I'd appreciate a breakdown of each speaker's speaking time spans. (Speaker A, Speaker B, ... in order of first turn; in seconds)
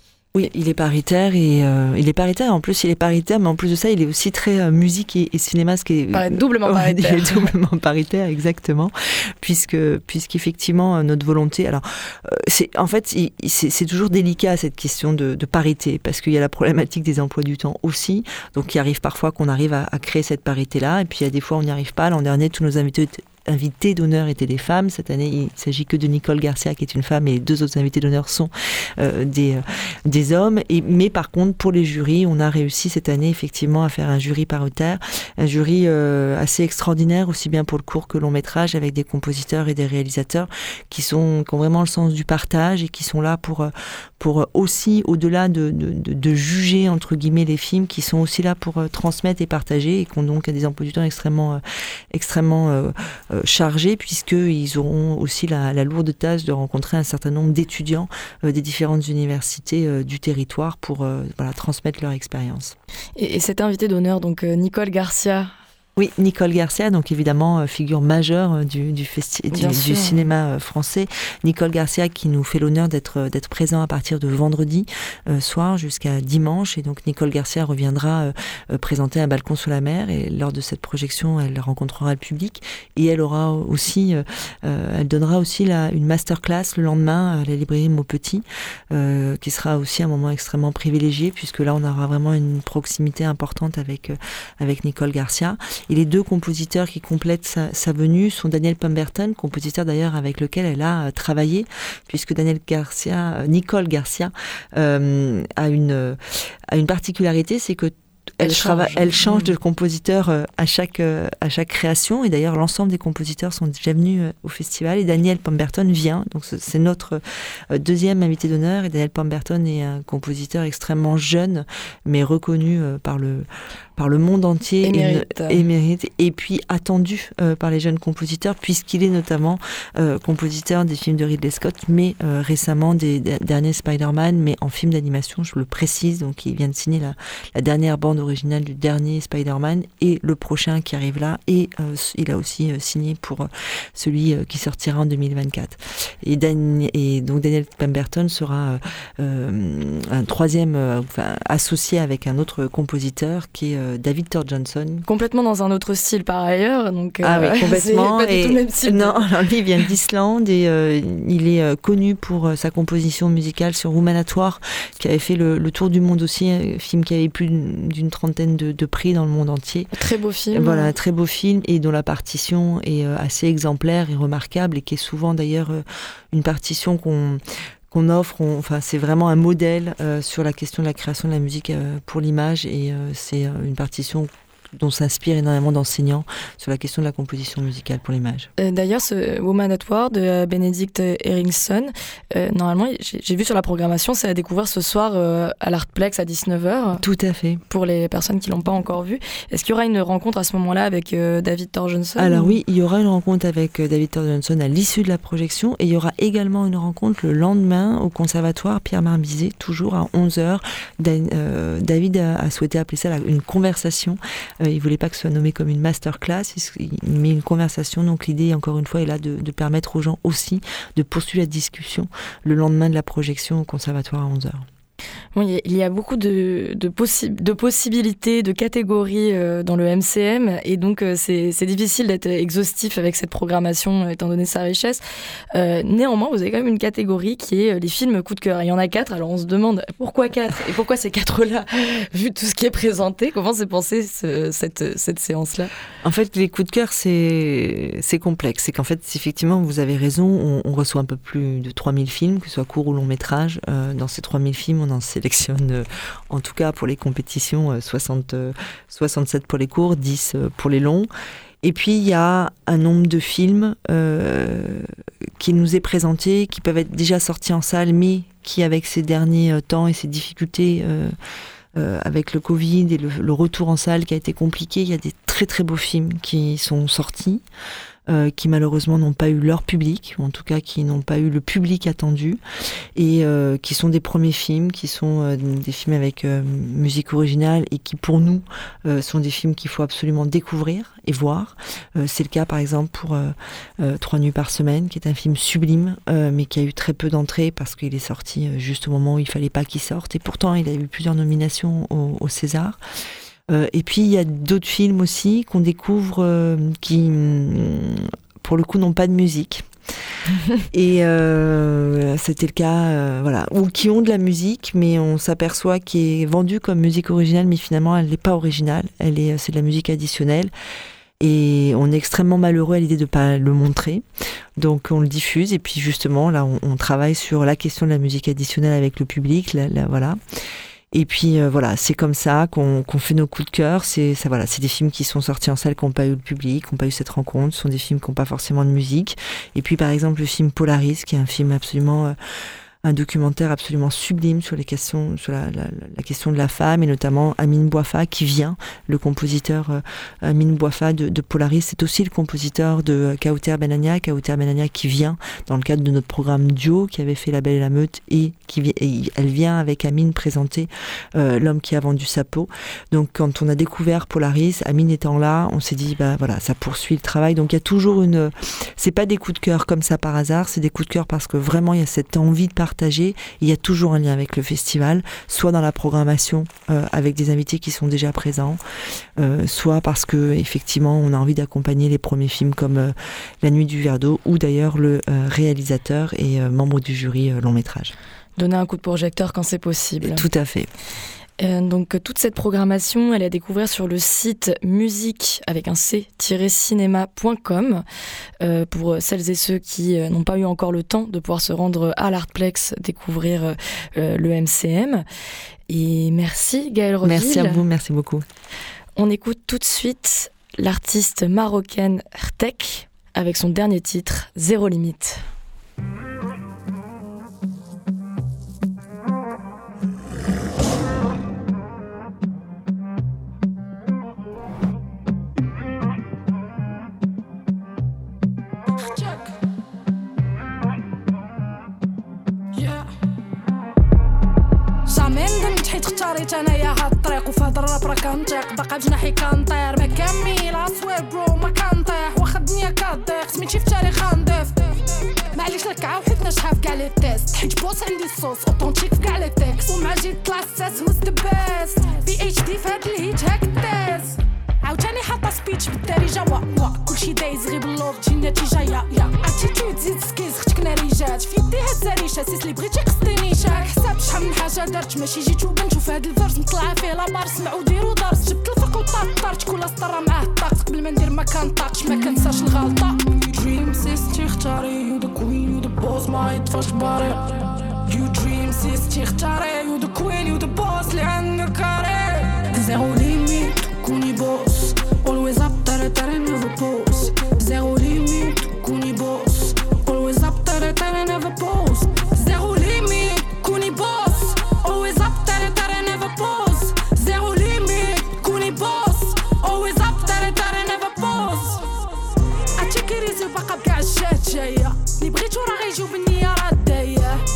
Speaker A: 0.3-62.8, 66.0-155.1, 157.2-169.9, 170.5-188.5, 197.0-197.6, 202.2-224.7, 246.0-261.1, 261.6-271.1, 271.8-277.4, 278.1-282.4, 283.0-302.8, 303.5-309.7, 310.7-320.5, 321.2-324.1, 324.6-330.2, 330.9-342.2, 342.8-378.6, 379.2-387.9, 390.0-390.7, 407.0-408.2
Speaker B: 6.1-7.5, 63.2-65.5, 69.5-70.2, 108.4-109.5, 124.8-125.6, 155.1-159.3, 169.9-170.9, 188.6-197.0, 197.7-202.6, 225.3-235.0, 235.5-245.7, 388.4-390.2, 391.4-397.8, 398.4-405.1, 405.7-407.6, 409.0-415.2
Speaker C: 428.8-429.3, 432.5-432.9, 434.9-444.8, 445.3-501.7, 502.6-507.2